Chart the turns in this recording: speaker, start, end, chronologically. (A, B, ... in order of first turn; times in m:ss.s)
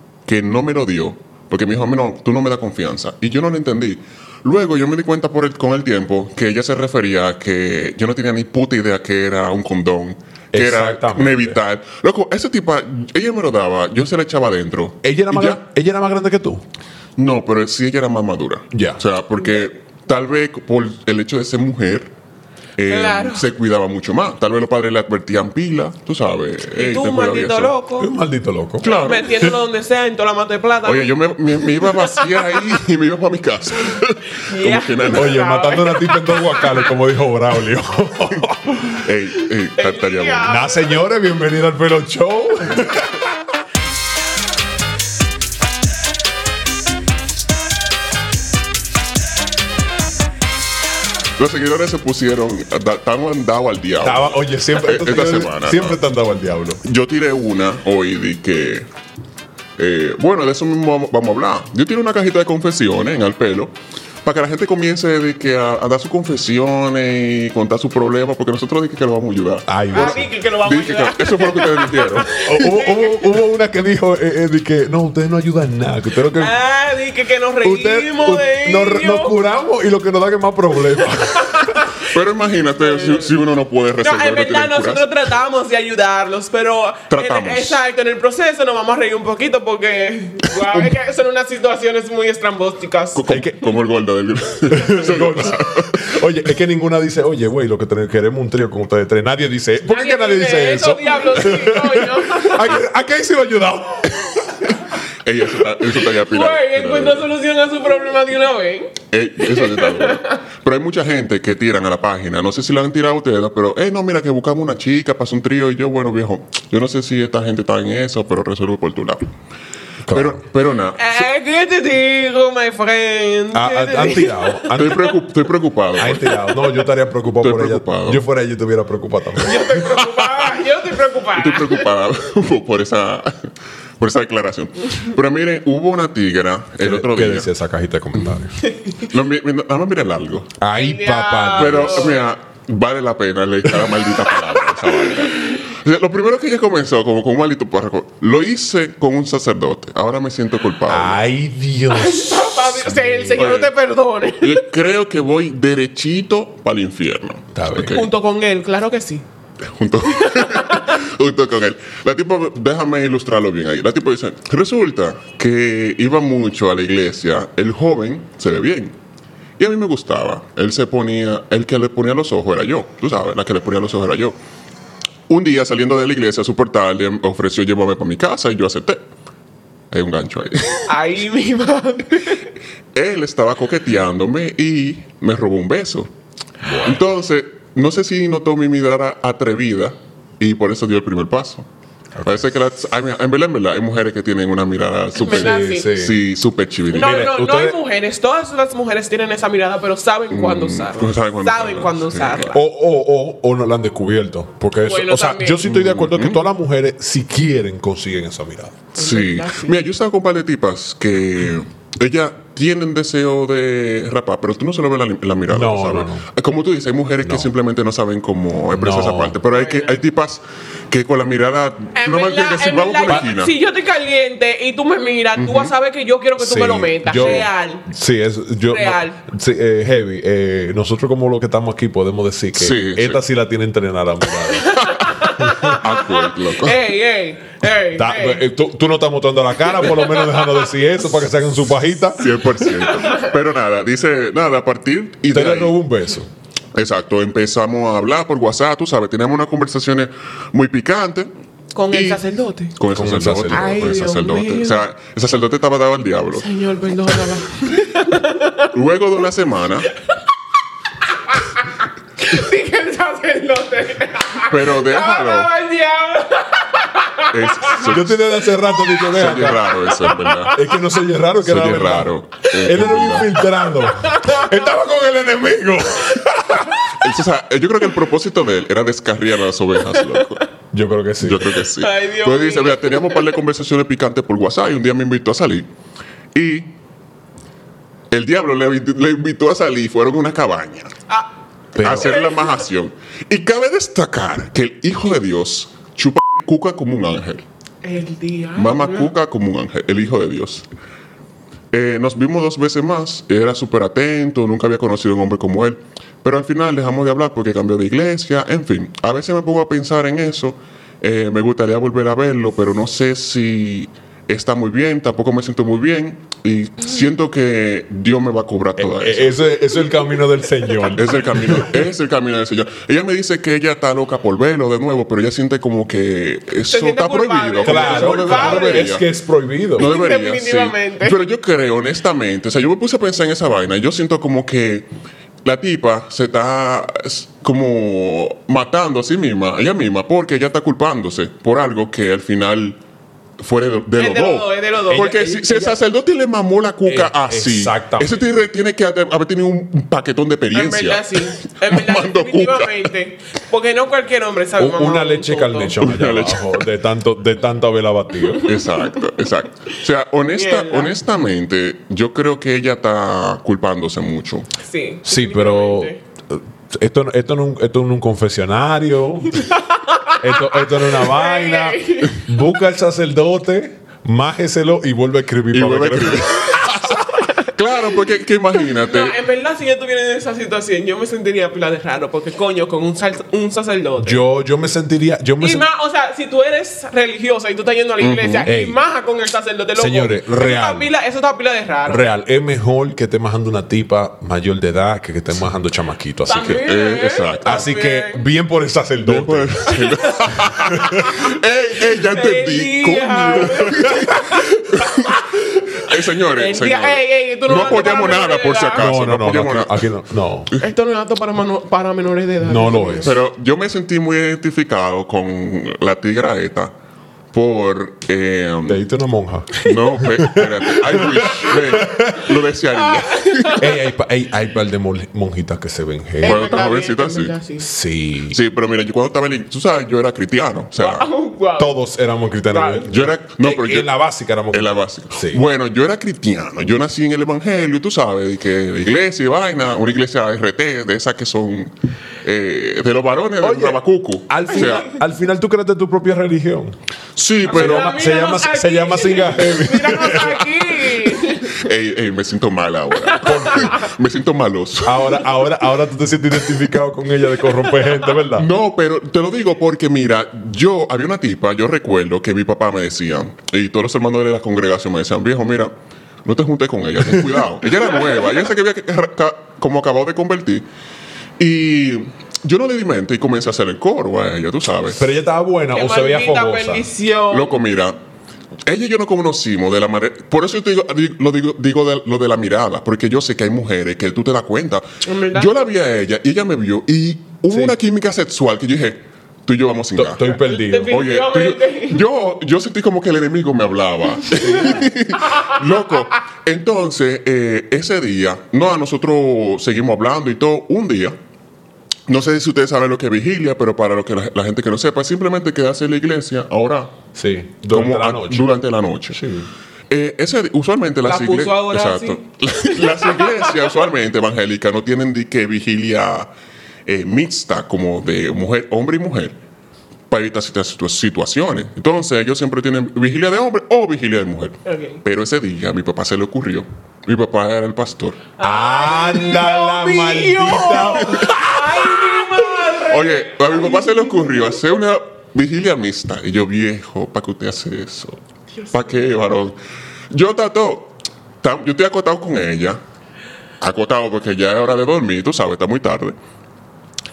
0:00.2-0:15.6 A
0:10.5-0:11.6 B
0:15.0-0:16.6 B
0:17.2-0:22.1 A
0:18.7-0:19.0 B
0:22.8-0:27.7 A
0:22.9-0:23.5 C
0:26.8-0:28.1 C
0:28.0-0:29.0 B
0:28.8-0:29.5 A
0:28.9-0:32.7 C
0:30.8-0:35.4 A
0:34.3-0:36.7 C
0:35.1-0:39.0 B
0:39.0-0:40.5 A
0:39.8-0:41.0 C
0:40.4-0:43.3 B
0:51.4-0:56.0 A
0:54.0-0:56.8 B
0:56.8-0:58.8 A
0:59.8-1:12.8 A
1:09.7-1:10.3 B
1:09.9-1:13.2 C
1:12.4-1:16.5 B
1:16.4-1:19.3 C
1:17.6-1:21.8 B
1:21.2-1:22.1 C
1:22.0-1:25.1 A
1:22.8-1:23.3 C
1:24.0-1:33.2 C
1:27.1-1:27.8 A
1:30.7-1:31.0 A
1:33.1-1:36.1 A
1:33.3-1:33.6 B
1:34.7-1:44.9 B
1:39.9-1:42.8 C
1:45.2-1:47.2 A
1:46.1-1:50.4 C
1:49.1-1:59.2 A
2:00.1-2:00.4 B
2:00.1-2:01.2 A
2:01.0-2:05.1 C
2:03.5-2:05.1 B
2:04.7-2:06.6 A
2:06.0-2:09.8 B
2:07.4-2:08.2 A
2:09.4-2:11.9 C
2:09.5-2:10.6 A
2:11.3-2:17.5 A
2:16.8-2:18.6 B
2:18.6-2:19.0 C
2:19.0-2:20.5 A
2:20.6-2:22.2 B
2:20.7-2:22.2 C
2:21.6-2:31.2 A
2:24.8-2:25.6 C
2:30.9-2:33.6 B
2:31.9-2:34.6 C
2:33.4-2:33.7 A
2:34.4-2:38.1 A
2:37.5-2:37.9 B
2:37.8-2:39.2 C
2:39.6-2:48.9 A
2:40.1-2:41.0 C
2:49.6-2:54.4 A
2:55.3-2:59.0 A
2:59.9-3:00.9 A
3:00.9-3:02.5 C
3:02.9-3:06.1 A
3:06.6-3:07.0 B
3:06.8-3:11.6 A
3:12.2-3:17.2 A
3:15.2-3:16.0 C
3:15.3-3:16.2 B
3:16.9-3:22.6 C
3:16.9-3:17.8 B
3:20.3-3:22.5 A
3:22.5-3:28.9 B
3:24.8-3:25.6 C
3:25.6-3:26.4 A
3:28.9-3:29.8 C
3:29.0-3:43.5 A
3:35.5-3:36.2 B
3:37.2-3:37.5 B
3:38.7-3:39.4 B
3:39.5-3:40.0 C
3:41.9-3:47.9 C
3:45.4-3:45.7 A
3:46.4-3:55.8 B
3:47.1-3:47.5 A
3:48.7-3:49.2 C
3:52.5-3:53.2 A
3:54.5-3:58.4 C
3:54.8-3:56.8 A
3:57.9-4:02.8 B
3:59.7-4:00.6 C
4:02.2-4:05.8 A
4:02.8-4:03.3 C
4:05.3-4:06.3 B
4:06.7-4:11.3 A
4:11.7-4:12.7 C
4:11.9-4:12.2 A
4:12.8-4:16.5 A
4:12.9-4:13.7 B
4:13.5-4:14.8 C
4:16.3-4:18.7 C
4:18.7-4:19.9 A
4:21.2-4:27.9 C
4:24.5-4:25.5 A
4:27.3-4:28.2 A
4:27.8-4:29.8 B
4:29.1-4:30.6 A
4:29.7-4:30.6 C
4:30.5-4:36.9 B
4:31.4-4:33.4 A
4:34.0-4:34.5 C
4:36.9-4:40.4 A
4:39.9-4:40.2 C
4:40.7-4:41.6 B
4:41.2-4:45.7 A
4:41.7-4:43.3 C
4:46.3-4:46.7 A
4:48.1-4:50.9 A
4:51.7-4:52.1 B
4:51.8-4:57.4 A
4:51.8-4:52.6 C
4:57.8-4:59.1 C
4:58.6-5:00.6 A
5:01.7-5:19.4 A
5:18.8-5:21.8 B
5:20.9-5:29.0 A
5:26.7-5:28.9 C
5:27.6-5:29.9 B
5:29.8-5:34.9 A
5:29.8-5:31.2 C
5:35.4-5:42.8 A
5:43.4-5:52.9 A
5:44.0-5:45.4 C
5:44.9-5:45.7 B
5:46.8-5:48.2 B
5:50.5-5:55.8 C
5:54.6-5:58.5 B
5:55.8-5:56.6 A
5:58.4-6:04.5 A
6:00.3-6:01.0 C
6:04.6-6:06.0 C
6:05.0-6:09.5 B
6:09.4-6:12.2 C
6:10.2-6:16.8 B
6:15.5-6:19.2 A
6:16.9-6:17.5 C
6:18.6-6:24.2 C
6:24.0-6:25.6 B
6:25.4-6:32.0 C
6:28.0-6:28.5 A
6:28.4-6:28.8 B
6:29.8-6:30.9 B
6:31.9-6:36.6 B
6:36.2-6:38.2 C
6:36.4-6:37.6 A
6:37.4-6:39.8 B
6:39.0-6:49.8 A
6:39.7-6:41.3 C
6:40.6-6:41.2 B
6:42.1-6:48.9 C
6:48.8-6:50.5 B
6:50.6-6:53.1 C
6:52.4-6:53.1 B
6:53.0-6:56.7 A
6:57.3-6:58.8 A
6:58.7-7:02.4 B
6:59.6-7:03.7 A
7:02.7-7:03.6 C
7:03.6-7:06.6 B
7:06.2-7:07.7 C
7:06.2-7:07.3 A
7:07.6-7:08.4 B
7:08.3-7:11.1 A
7:10.8-7:11.8 C
7:11.6-7:15.4 B
7:12.5-7:12.9 C
7:12.9-7:13.9 A
7:14.5-7:21.7 A
7:22.2-7:24.9 A
7:23.4-7:26.8 B
7:27.2-7:27.9 A
7:27.4-7:31.6 C
7:27.5-7:30.4 B
7:30.9-7:35.2 A
7:33.0-7:33.9 C
7:33.2-7:33.7 B
7:34.8-7:38.5 B
7:38.4-7:45.7 A
7:46.2-7:50.6 A
7:47.0-7:47.5 B
7:51.4-7:55.1 A
7:55.0-7:56.9 B
7:55.7-7:57.5 C
7:57.3-7:58.0 A
7:58.6-8:10.4 A
8:05.0-8:05.6 C
8:10.0-8:10.9 B
8:10.3-8:12.0 C
8:10.9-8:21.2 A
8:14.4-8:15.6 C
8:14.4-8:14.9 B
8:22.1-8:26.9 A
8:27.1-8:28.5 B
8:27.7-8:29.2 A
8:29.1-8:29.5 B
8:29.9-8:36.3 A
8:31.0-8:33.7 C
8:36.8-8:39.4 A
8:40.1-8:48.2 A
8:44.6-8:45.0 C
8:48.4-8:54.6 C
8:48.4-8:51.9 B
8:50.8-8:51.4 A
8:52.6-8:58.2 A
8:58.7-8:59.6 A
9:00.1-9:02.8 A
9:03.6-9:06.1 A